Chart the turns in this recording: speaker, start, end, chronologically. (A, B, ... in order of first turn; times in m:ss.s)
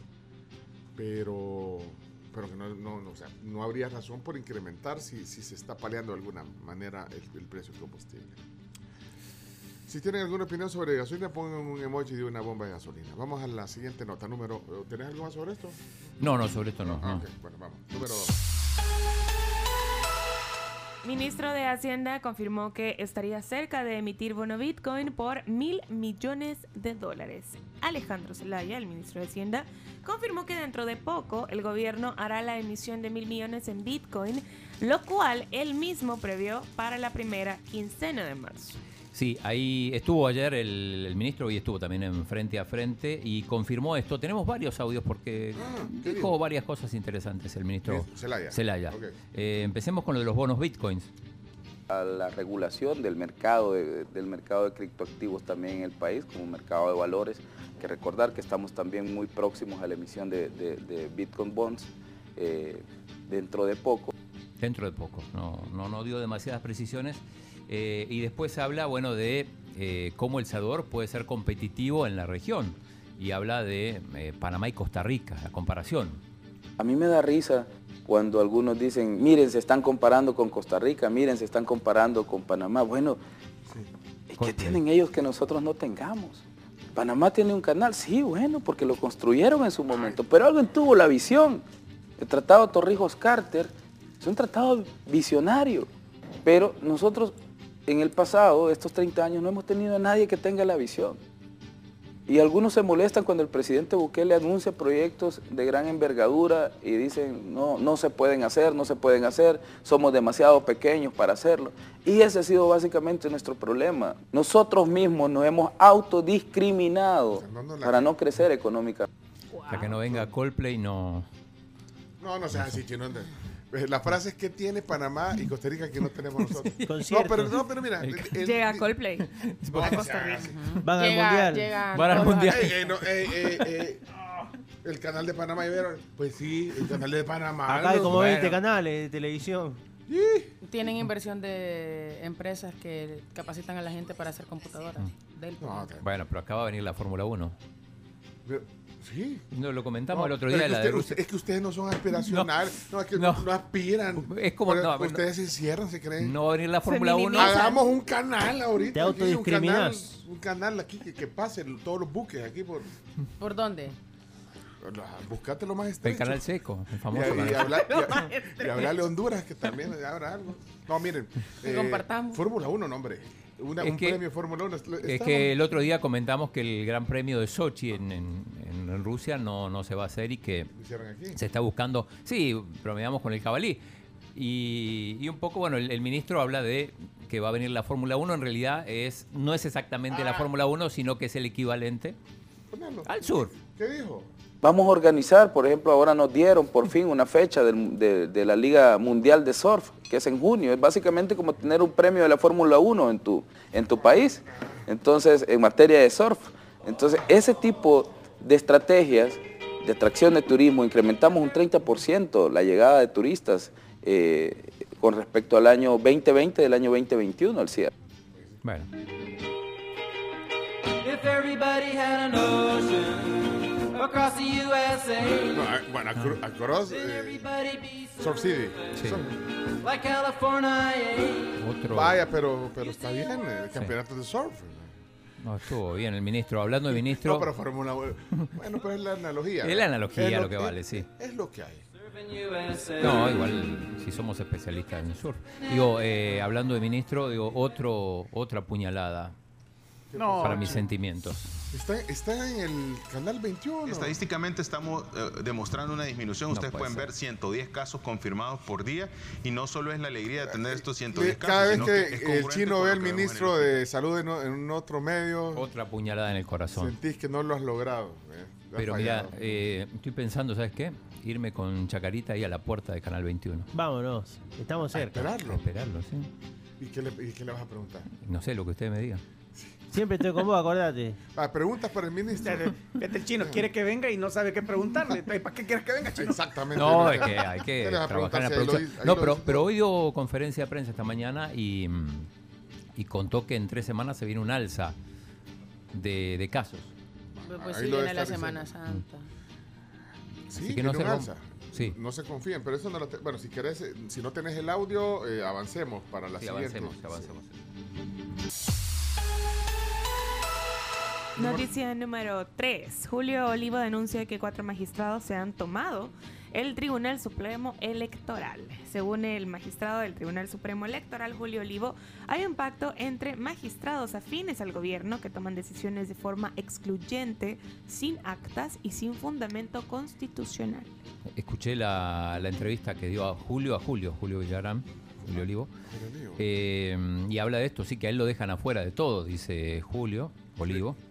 0:01.0-0:08.4 A
0:09.9-0:15.8 A
0:16.2-0:17.2 B
0:16.8-0:18.4 A
0:21.0-0:38.8 C
0:39.1-0:51.1 B
0:45.6-0:46.3 A
0:47.9-0:49.1 A
0:51.9-1:04.1 D
1:04.6-1:16.2 B
1:16.8-1:23.2 D
1:24.3-1:26.4 D
1:24.4-1:24.8 B
1:26.9-1:31.6 D
1:32.2-1:35.9 D
1:36.4-1:37.4 D
1:37.9-1:41.2 D
1:42.3-1:59.1 D
1:57.4-1:58.2 A
1:59.5-1:59.9 C
1:59.7-2:01.2 B
1:59.7-2:00.3 A
2:02.2-2:08.9 A
2:02.5-2:02.8 B
2:06.4-2:08.4 B
2:06.8-2:07.5 E
2:08.4-2:09.3 C
2:09.2-2:10.4 B
2:09.7-2:10.8 A
2:10.3-2:13.0 F
2:10.8-2:11.7 E
2:11.9-2:13.8 B
2:12.4-2:14.0 A
2:14.8-2:18.6 A
2:17.6-2:19.8 E
2:20.1-2:20.5 A
2:20.6-2:25.9 F
2:25.6-2:26.0 A
2:26.0-2:27.6 B
2:28.4-2:29.4 A
2:29.5-2:31.2 B
2:30.1-2:36.4 A
2:32.1-2:33.5 B
2:34.1-2:35.2 B
2:36.2-2:37.6 B
2:36.8-2:37.8 C
2:37.3-2:42.9 A
2:38.9-2:40.2 E
2:43.4-2:44.0 F
2:44.8-2:46.4 A
2:46.0-2:48.1 B
2:47.1-2:55.5 A
2:51.6-2:52.4 F
2:53.8-2:54.2 B
2:55.0-3:00.7 B
3:00.7-3:01.4 A
3:01.3-3:03.8 B
3:04.3-3:12.2 B
3:12.7-3:14.3 A
3:13.0-3:13.5 B
3:14.6-3:37.9 D
3:38.6-3:38.9 B
3:41.0-3:45.6 G
3:45.5-3:47.5 A
3:46.9-3:48.1 G
3:48.2-3:49.4 A
3:48.9-3:49.2 B
3:49.8-3:51.5 G
3:51.6-3:52.2 B
3:51.9-3:54.9 A
3:55.4-3:57.5 B
3:56.9-4:01.8 A
3:59.6-4:01.1 B
4:02.1-4:03.2 G
4:03.0-4:09.3 B
4:10.1-4:10.8 A
4:10.2-4:10.8 H
4:10.4-4:11.5 B
4:11.7-4:14.2 A
4:13.9-4:23.7 I
4:16.5-4:17.1 B
4:20.4-4:25.7 A
4:25.5-4:26.9 B
4:26.7-4:29.6 A
4:28.8-4:33.7 B
4:33.7-4:35.3 E
4:34.9-4:35.6 A
4:35.4-4:36.3 B
4:36.8-4:38.1 A
4:38.2-4:39.2 B
4:39.9-4:41.2 E
4:41.3-4:42.7 A
4:42.4-4:46.6 H
4:43.4-4:43.6 A
4:46.1-4:49.7 A
4:46.7-4:52.3 B
4:53.0-4:54.9 B
4:55.9-4:56.9 B
4:57.3-4:58.7 A
4:57.4-4:59.3 F
5:00.5-5:07.3 A
5:00.6-5:02.0 B
5:06.4-5:07.5 B
5:11.4-5:30.9 C
5:11.4-5:11.6 A
5:31.3-5:35.7 B
5:35.2-5:36.4 A
5:36.4-5:41.0 B